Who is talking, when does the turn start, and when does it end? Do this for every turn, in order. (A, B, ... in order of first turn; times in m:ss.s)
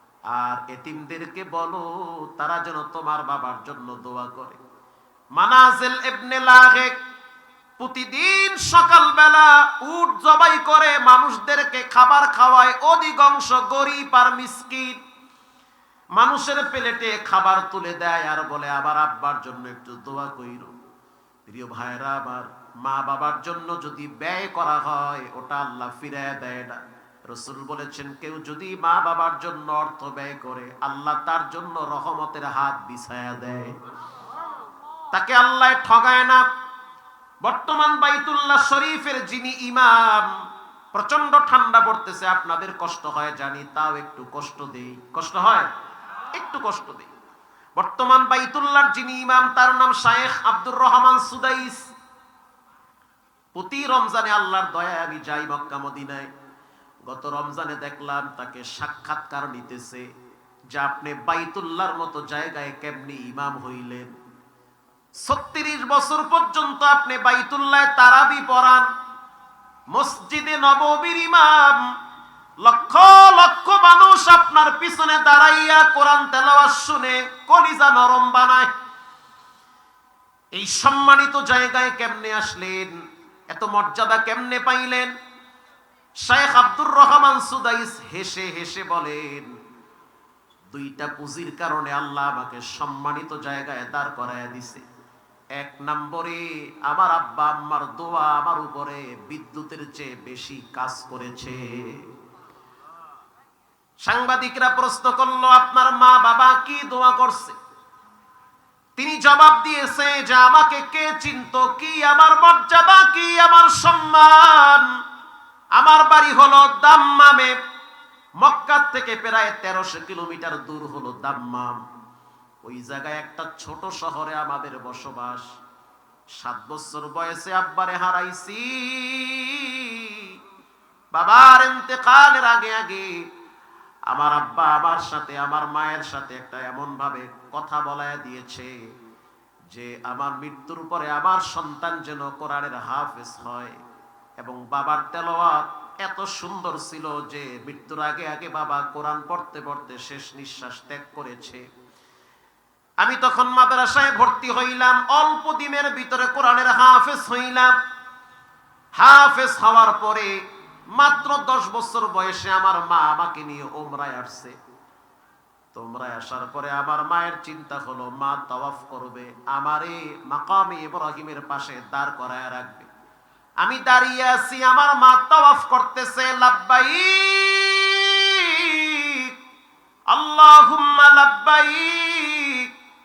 0:00.3-0:04.6 A
0:05.4-0:07.0 A
0:07.8-0:15.0 A
0:16.2-0:20.7 A
0:21.5-0:33.7 A
0:35.1-0:36.4 A
0:37.4-0:40.4 A
0:40.9-0:45.7 A
0:46.3-0:47.1 A
0:47.8-0:51.9 A
0:53.6-0:56.3 A
0:57.1-1:00.1 A
1:00.7-1:04.1 A
1:05.2-1:08.9 A
1:09.9-1:11.9 A
1:12.6-1:18.7 A
1:20.6-1:25.1 A
1:26.2-1:29.5 A
1:30.7-1:34.8 A
1:35.6-1:42.0 A
1:44.0-1:47.6 A
1:49.0-1:54.9 A
1:55.8-1:57.5 A
1:58.4-2:01.8 A
2:02.6-2:05.4 A
2:06.4-2:10.3 A
2:11.1-2:13.2 A
2:14.1-2:18.7 A
2:19.7-2:23.8 A
2:24.4-2:31.6 A
2:33.0-2:37.8 A
2:39.0-2:40.3 A
2:41.0-2:44.6 A
2:45.7-2:52.9 A
2:53.6-2:59.3 A
3:00.1-3:02.7 A